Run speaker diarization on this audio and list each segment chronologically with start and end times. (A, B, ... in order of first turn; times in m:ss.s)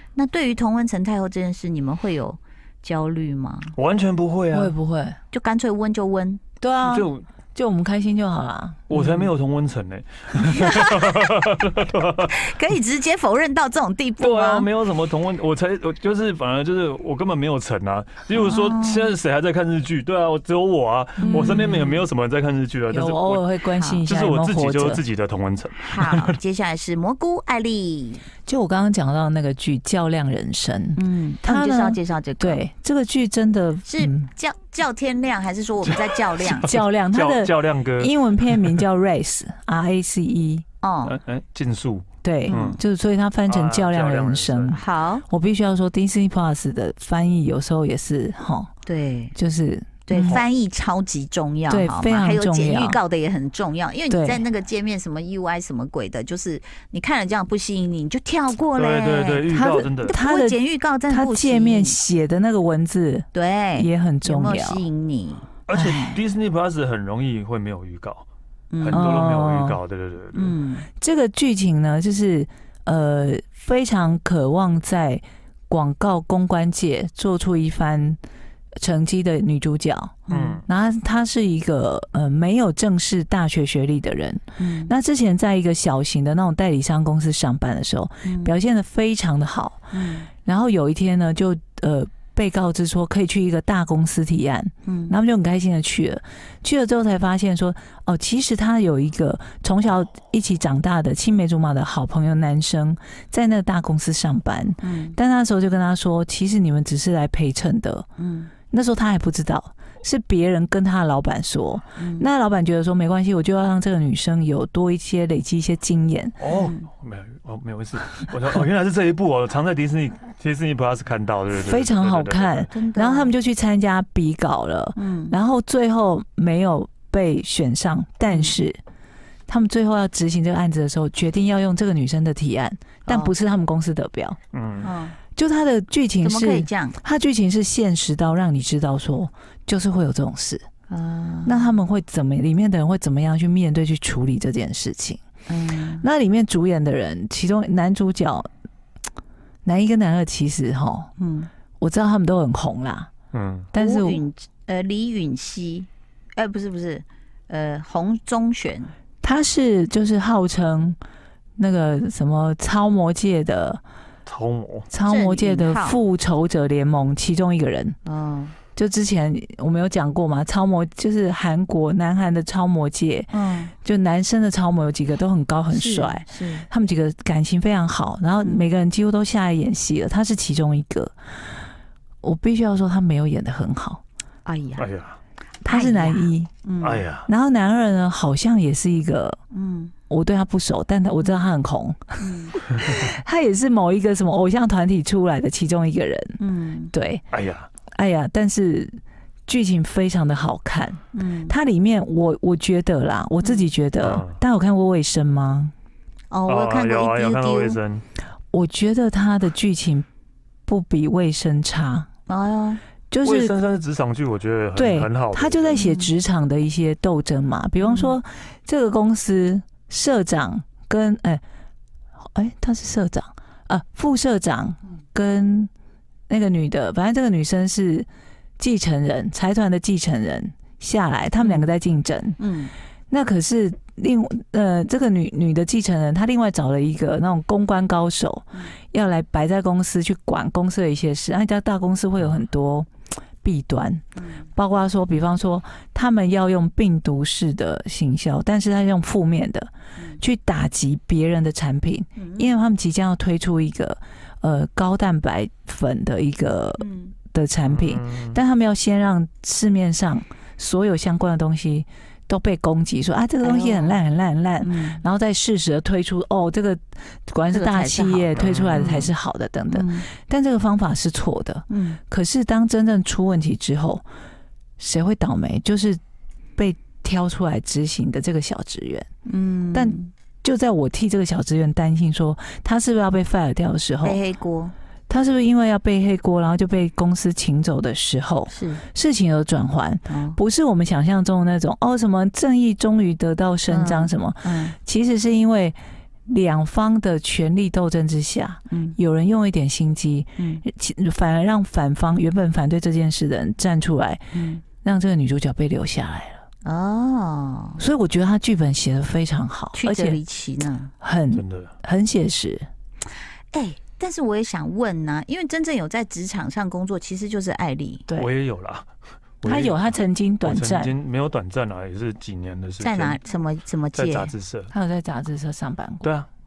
0:00.2-0:03.8 A
0:03.8-0:04.8 B
0:04.5-0:05.2 C
0:05.3-0:06.4 A
0:06.6-0:09.1 C
0:06.8-0:07.2 B
0:08.9-0:12.3 B
0:10.4-0:11.3 A
0:12.3-0:14.7 A
0:14.2-0:23.5 B
0:18.3-0:19.1 A
0:21.2-0:22.0 A
0:21.2-0:21.7 C
0:22.9-0:25.0 C
0:23.8-0:24.0 A
0:24.1-0:26.4 B
0:25.8-0:28.2 A
0:28.5-0:34.3 C
0:31.0-0:32.6 A
0:33.8-0:36.8 A
0:36.5-0:40.6 C
0:36.7-0:38.8 B
0:40.8-0:41.2 A
0:41.1-0:42.8 B
0:42.2-0:48.7 C
0:42.5-0:42.8 A
0:43.5-0:44.8 B
0:44.7-0:45.2 A
0:48.9-0:49.4 A
0:49.4-0:50.4 C
0:50.1-0:59.5 A
0:50.2-0:50.4 B
0:51.7-0:53.0 C
0:54.1-0:54.4 C
0:58.8-1:00.2 B
0:59.5-1:00.6 C
1:00.0-1:02.0 A
1:01.1-1:04.9 C
1:03.3-1:06.2 A
1:05.7-1:08.3 B
1:05.7-1:06.1 C
1:08.7-1:09.1 A
1:08.8-1:10.6 B
1:08.9-1:09.8 C
1:10.3-1:10.9 A
1:11.0-1:18.2 C
1:18.8-1:29.9 C
1:20.3-1:20.6 A
1:20.3-1:20.6 B
1:24.6-1:24.9 A
1:28.2-1:28.6 A
1:29.9-1:30.3 A
1:30.4-1:48.1 C
1:34.8-1:35.2 A
1:44.8-1:45.2 A
1:48.2-1:48.5 A
1:48.7-1:56.4 C
1:52.0-1:52.3 A
1:56.4-2:02.7 B
1:56.5-1:56.9 A
2:01.6-2:08.8 C
2:02.7-2:03.4 A
2:05.0-2:05.4 A
2:08.3-2:08.6 A
2:09.5-2:14.4 C
2:13.1-2:13.4 A
2:14.5-2:14.9 B
2:14.8-2:15.2 A
2:15.4-2:20.6 C
2:16.2-2:17.0 A
2:20.9-2:21.8 A
2:21.4-2:25.2 C
2:25.5-2:26.1 A
2:26.0-2:28.5 C
2:29.6-2:31.1 C
2:31.2-2:31.5 A
2:31.8-2:33.1 C
2:33.3-2:33.7 B
2:33.7-2:34.2 C
2:33.8-2:38.9 A
2:39.2-2:41.0 C
2:41.6-2:43.8 C
2:44.3-2:44.9 B
2:44.9-2:48.0 C
2:45.1-2:46.0 A
2:48.0-2:48.6 A
2:48.8-2:53.3 C
2:53.3-2:53.7 A
2:53.8-3:01.1 C
2:55.7-2:56.7 A
2:58.4-2:58.6 A
3:02.2-3:04.0 C
3:04.5-3:04.9 A
3:04.8-3:05.2 B
3:05.6-3:06.5 C
3:05.7-3:07.0 A
3:06.8-3:07.3 B
3:07.2-3:09.4 C
3:09.5-3:09.9 A
3:10.1-3:16.4 C
3:12.2-3:12.6 A
3:16.4-3:16.9 A
3:16.9-3:17.2 C
3:17.3-3:17.7 B
3:17.9-3:25.7 C
3:21.1-3:21.6 A
3:23.4-3:23.7 A
3:24.0-3:24.4 B
3:26.3-3:27.8 A
3:26.5-3:28.0 B
3:28.5-3:30.1 C
3:30.7-3:32.1 C
3:32.3-3:32.8 A
3:33.1-3:33.6 C
3:33.2-3:35.8 B
3:34.8-3:41.4 C
3:35.7-3:36.1 A
3:37.8-3:38.2 A
3:42.2-3:45.7 C
3:46.3-3:48.1 C
3:48.6-3:52.4 C
3:51.4-3:51.7 A
3:52.4-3:52.7 A
3:53.1-4:02.9 C
4:03.4-4:34.0 C
4:04.2-4:04.5 A
4:12.2-4:12.5 A
4:16.8-4:17.2 A
4:17.6-4:18.4 B
4:23.4-4:24.0 A
4:24.6-4:25.0 A
4:27.5-4:29.1 A
4:28.4-4:29.0 B
4:29.7-4:30.1 A
4:31.7-4:32.0 A
4:34.8-4:36.0 C
4:36.6-4:39.1 C
4:39.2-4:40.1 A
4:39.7-4:44.2 C
4:44.0-4:44.7 A
4:45.1-4:55.8 C
4:48.5-4:48.8 A
4:50.1-4:50.4 A
4:53.7-4:54.7 A
4:56.3-5:04.2 C
4:58.7-4:59.0 A
5:00.4-5:00.6 A
5:04.3-5:04.6 A
5:04.8-5:06.4 C
5:06.6-5:07.8 A
5:07.8-5:10.2 C
5:09.7-5:10.9 A
5:11.0-5:12.7 C
5:11.3-5:11.7 B
5:13.5-5:18.0 A
5:18.2-5:18.9 B
5:19.4-5:19.9 B
5:19.4-5:20.9 C
5:20.4-5:23.2 B
5:22.8-5:24.3 A
5:24.0-5:24.7 B
5:24.7-5:26.1 C
5:26.0-5:26.3 B